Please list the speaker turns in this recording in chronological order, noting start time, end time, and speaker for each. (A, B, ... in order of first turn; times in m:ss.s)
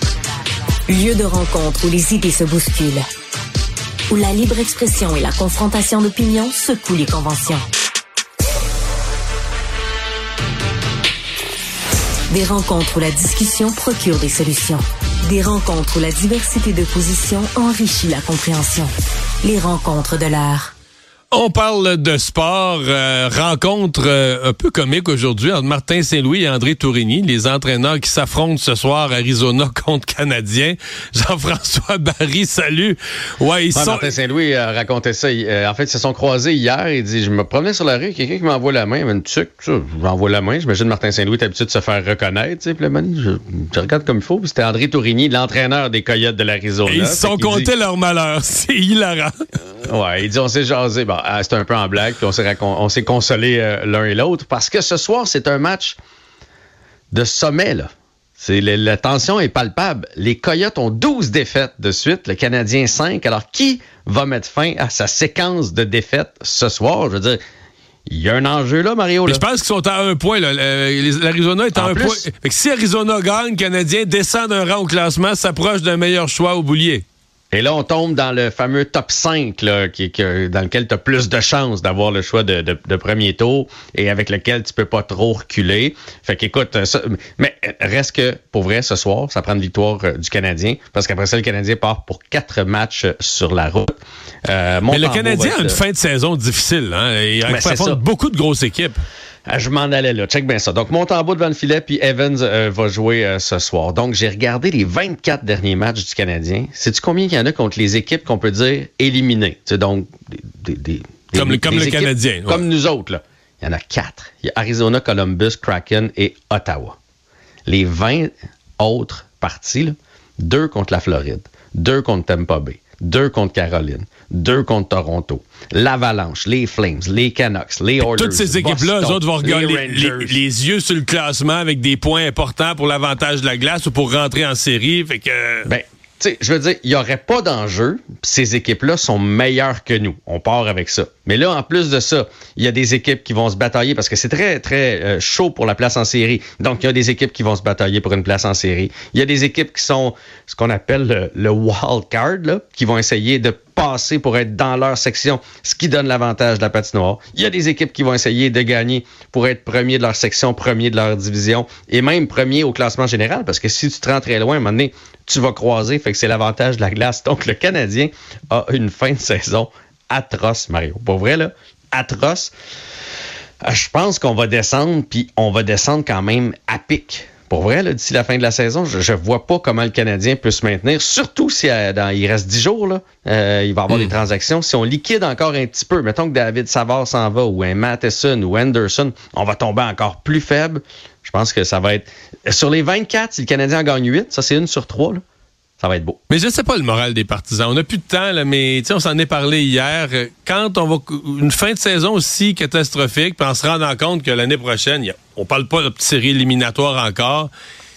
0:00.9-0:03.0 A
0:04.1-0:07.6 A
0:12.3-0:18.9 A
0:19.4-0:20.7 A
0:21.3-0:34.1 B
0:33.7-0:47.7 C
0:46.8-0:49.3 B
0:49.8-0:56.0 C
0:57.1-1:07.4 C
1:08.1-1:09.4 C
1:09.3-1:17.0 B
1:11.8-1:12.2 C
1:17.5-1:35.8 C
1:34.9-1:39.0 B
1:37.5-1:38.0 C
1:39.5-1:57.0 C
1:51.4-1:52.6 B
1:57.6-2:10.4 C
2:08.0-2:15.7 B
2:15.6-2:52.5 C
2:53.6-3:15.2 C
3:15.8-3:16.2 C
3:16.3-3:27.5 B